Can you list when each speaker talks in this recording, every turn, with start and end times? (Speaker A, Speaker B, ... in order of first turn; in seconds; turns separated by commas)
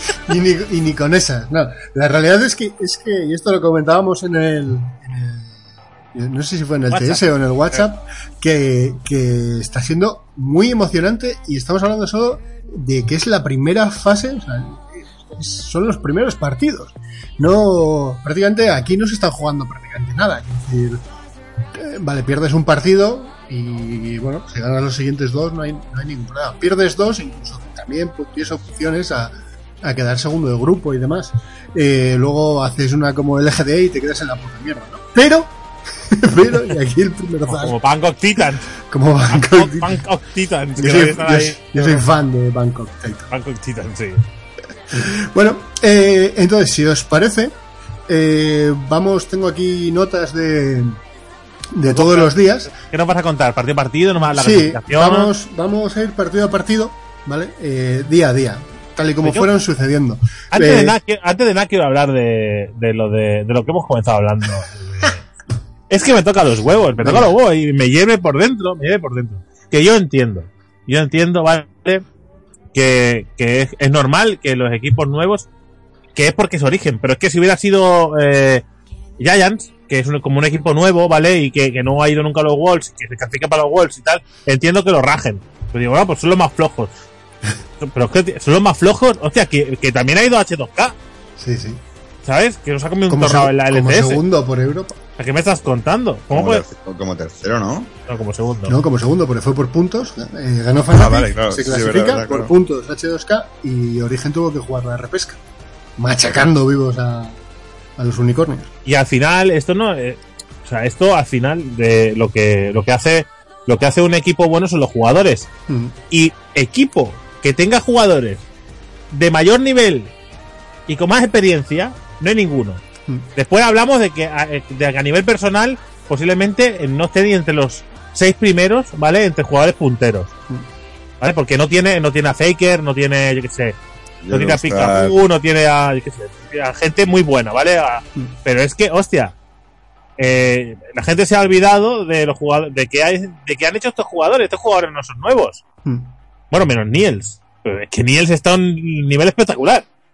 Speaker A: 0.1-5.6, Speaker A: 6.1-21.0, Speaker B: 6.9-7.8, Speaker A: 21.7-37.8, Speaker B: 37.5-38.7, Speaker A: 38.7-40.0, Speaker B: 39.3-42.0, Speaker A: 40.8-43.3, Speaker B: 43.3-44.2, Speaker A: 44.9-47.5, Speaker A: 48.1-51.0, Speaker A: 51.7-52.7, Speaker B: 51.9-55.3, Speaker A: 54.3-61.0, Speaker B: 60.5-65.2, Speaker B: 65.9-72.0, Speaker A: 67.0-67.3, Speaker B: 72.7-75.5, Speaker B: 76.1-78.6, Speaker B: 79.2-86.9, Speaker B: 87.8-91.0, Speaker A: 91.4-91.8, Speaker B: 92.2-94.2, Speaker A: 93.1-95.0, Speaker B: 95.2-96.6, Speaker C: 96.3-97.9, Speaker B: 98.1-98.7, Speaker A: 98.7-105.4, Speaker C: 100.9-102.5, Speaker A: 106.0-107.4, Speaker A: 108.0-108.7, Speaker B: 108.8-115.5, Speaker A: 115.7-115.9, Speaker B: 116.1-118.4, Speaker B: 119.1-120.1, Speaker B: 120.9-122.8, Speaker B: 123.3-130.3, Speaker B: 131.2-133.8, Speaker C: 134.2-135.2, Speaker B: 134.3-139.3, Speaker B: 140.2-145.6, Speaker A: 145.8-146.1, Speaker B: 146.5-149.9